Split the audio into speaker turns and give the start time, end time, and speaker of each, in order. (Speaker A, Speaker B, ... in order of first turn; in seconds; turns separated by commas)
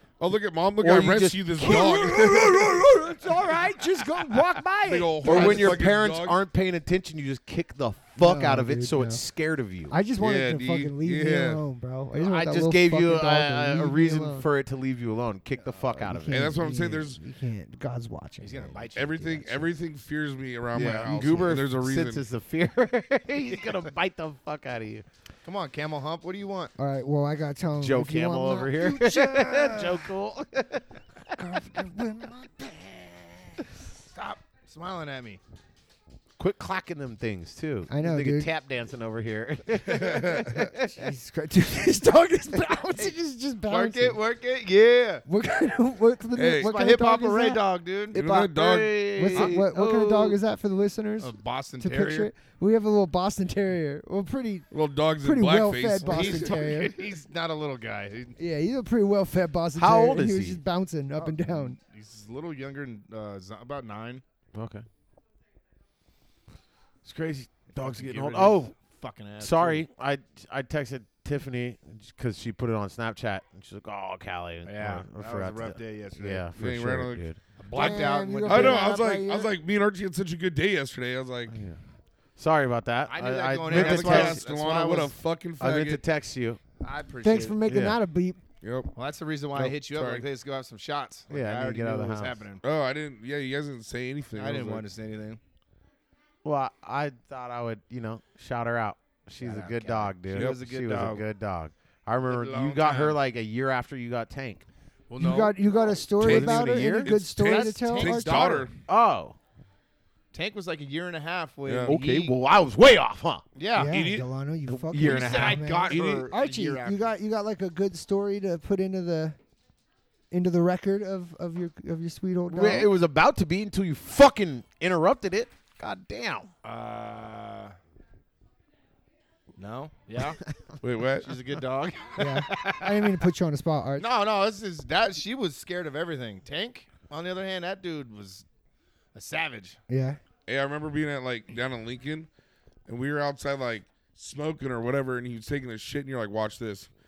Speaker A: 0.2-2.8, Speaker B: 0.8-2.4, Speaker C: 1.6-5.8, Speaker A: 4.8-6.4, Speaker B: 5.2-9.9, Speaker C: 8.2-9.2, Speaker C: 9.9-14.4, Speaker A: 10.2-11.6, Speaker B: 12.2-16.5, Speaker C: 16.0-18.8, Speaker A: 16.3-17.2, Speaker D: 18.4-19.7, Speaker A: 18.9-22.2, Speaker B: 20.7-25.0, Speaker D: 23.5-23.8, Speaker D: 25.4-26.7, Speaker C: 26.8-30.1, Speaker B: 27.8-30.8, Speaker C: 31.3-33.2, Speaker D: 34.1-35.4, Speaker B: 36.4-41.0, Speaker C: 37.9-38.5, Speaker A: 39.9-40.7, Speaker C: 40.8-44.2, Speaker D: 43.7-45.2, Speaker C: 45.3-47.6, Speaker A: 46.3-46.7, Speaker D: 46.6-48.2, Speaker B: 48.1-50.4, Speaker A: 48.1-49.5, Speaker C: 49.1-54.7, Speaker D: 51.2-52.3, Speaker A: 54.7-56.5, Speaker C: 55.2-57.0, Speaker D: 56.0-58.4, Speaker C: 58.4-61.8, Speaker B: 59.7-60.6, Speaker D: 61.2-64.2, Speaker B: 64.5-64.8, Speaker B: 67.0-68.7, Speaker D: 67.7-69.8, Speaker B: 69.4-77.4, Speaker D: 74.6-76.5, Speaker A: 76.5-77.2, Speaker D: 77.6-78.9, Speaker C: 77.7-79.5, Speaker A: 77.8-81.5, Speaker B: 81.5-81.8, Speaker B: 82.4-84.4, Speaker D: 83.1-85.1, Speaker A: 83.7-86.0, Speaker B: 85.6-86.6, Speaker D: 86.8-87.6, Speaker C: 87.2-88.4, Speaker B: 87.7-88.0, Speaker A: 88.6-88.9, Speaker D: 89.0-92.6, Speaker A: 89.5-90.2, Speaker B: 91.3-92.4, Speaker A: 92.6-94.8, Speaker D: 94.3-95.4, Speaker B: 96.4-104.6, Speaker D: 99.4-101.2, Speaker D: 102.3-103.2, Speaker D: 105.1-106.0, Speaker C: 105.2-108.7, Speaker B: 106.2-107.1, Speaker A: 106.2-108.7, Speaker D: 107.4-108.7, Speaker B: 108.9-109.4, Speaker D: 110.3-112.3, Speaker A: 111.7-112.0, Speaker B: 111.9-113.4, Speaker D: 113.5-113.9, Speaker C: 113.7-119.4, Speaker A: 113.8-114.2, Speaker B: 114.7-115.6, Speaker D: 114.9-117.0, Speaker A: 115.9-116.3, Speaker C: 120.3-122.9, Speaker B: 122.5-126.5, Speaker D: 126.6-127.8, Speaker D: 129.6-130.4, Speaker A: 130.8-131.3, Speaker D: 131.2-133.2, Speaker C: 132.2-134.1, Speaker D: 134.0-138.4, Speaker D: 139.1-139.8, Speaker C: 139.9-140.2, Speaker A: 140.5-142.3, Speaker A: 142.9-146.9